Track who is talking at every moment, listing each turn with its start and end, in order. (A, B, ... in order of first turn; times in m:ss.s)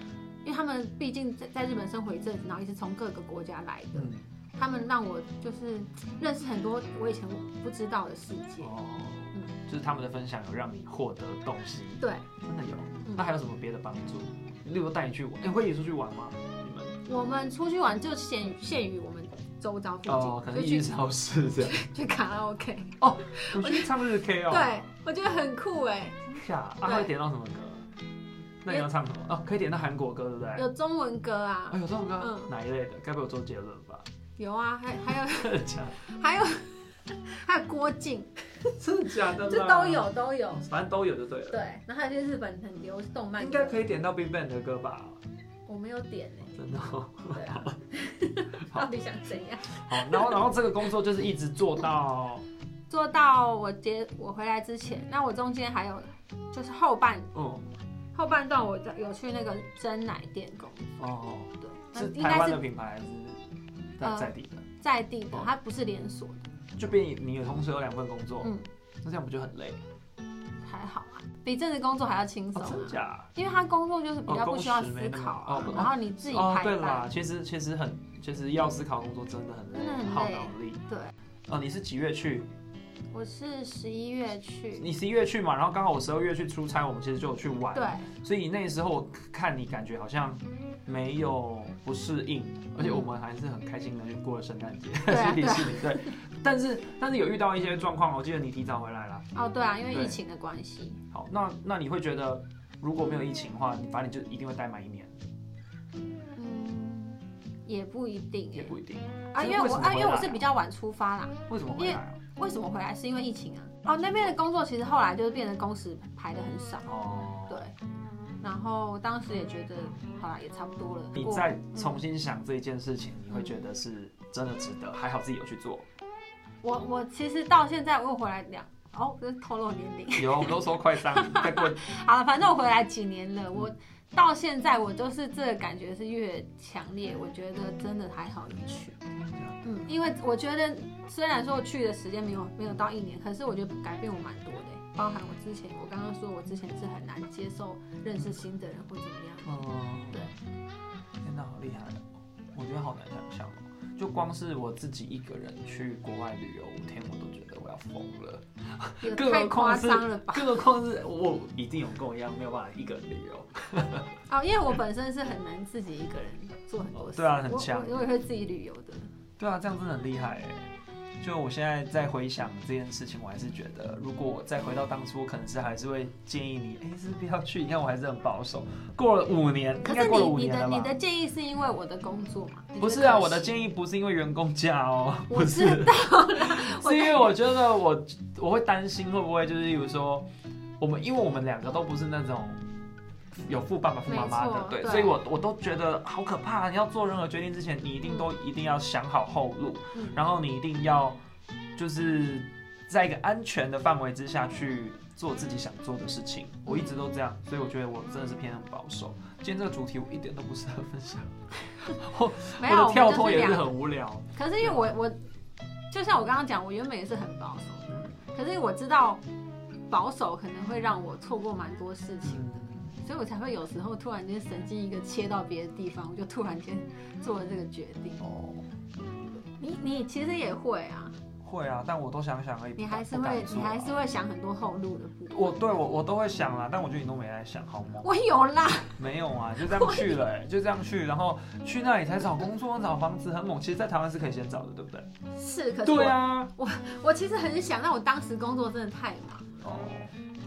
0:00.4-0:08.7 A
0:03.9-0:04.3 B
0:08.6-0:16.9 B
0:12.0-0:12.2 A
0:17.0-0:21.0 A
0:20.0-0:21.8 B
0:21.6-0:23.9 A
0:23.0-0:24.7 B
0:24.5-0:26.3 A
0:26.3-0:27.8 B
0:26.8-0:27.1 A
0:28.6-0:30.6 B
0:30.6-0:32.5 A
0:31.7-0:34.0 B
0:34.4-0:38.7 A
0:35.1-0:36.0 B
0:38.8-0:41.6 B
0:39.4-0:40.6 A
0:41.5-0:43.9 A
0:43.4-0:45.2 B
0:45.6-0:46.6 A
0:46.5-0:47.8 B
0:47.3-0:50.4 A
0:48.6-0:48.9 B
0:49.6-0:52.4 B
0:52.9-0:57.3 A
0:57.3-0:57.7 B
0:58.1-1:01.0 A
1:01.0-1:03.4 B
1:01.6-1:02.6 A
1:04.0-1:04.6 B
1:04.0-1:06.5 A
1:06.8-1:09.8 B
1:08.4-1:08.7 A
1:10.6-1:17.1 A
1:12.5-1:13.3 B
1:14.2-1:20.8 B
1:19.7-1:21.1 A
1:21.5-1:22.5 B
1:23.1-1:24.9 A
1:24.7-1:39.2 B
1:27.7-1:28.1 A
1:32.8-1:33.1 A
1:35.1-1:36.1 A
1:39.3-1:41.0 A
1:39.9-1:40.2 B
1:41.1-1:45.1 B
1:46.3-1:48.8 A
1:48.5-1:50.4 B
1:49.3-1:56.9 A
1:51.5-1:52.2 B
1:56.8-1:57.6 B
1:57.5-1:57.7 A
1:58.4-2:02.0 A
2:01.1-2:05.8 B
2:03.3-2:03.6 A
2:06.6-2:19.0 A
2:10.1-2:11.8 B
2:19.2-2:19.6 B
2:19.6-2:29.5 A
2:29.4-2:30.3 B
2:31.2-2:44.1 B
2:39.0-2:40.6 A
2:44.3-2:49.1 A
2:46.9-2:48.0 B
2:49.4-2:50.7 B
2:51.2-3:00.9 B
2:59.8-3:03.5 A
3:02.8-3:10.3 B
3:05.3-3:07.4 A
3:10.8-3:12.6 B
3:13.4-3:21.2 B
3:14.0-3:15.2 A
3:19.9-3:20.2 A
3:21.8-3:34.9 B
3:26.6-3:27.0 A
3:32.5-3:33.7 A
3:34.3-3:35.2 A
3:35.9-3:39.2 A
3:39.9-3:48.2 A
3:42.2-3:43.0 B
3:48.2-3:48.6 B
3:49.6-3:51.2 A
3:51.4-3:54.0 B
3:52.8-3:55.7 A
3:55.3-3:58.1 B
3:58.0-3:59.0 A
3:59.0-4:05.1 B
3:59.6-4:00.2 A
4:05.3-4:09.5 A
4:05.8-4:06.5 B
4:09.6-4:10.1 B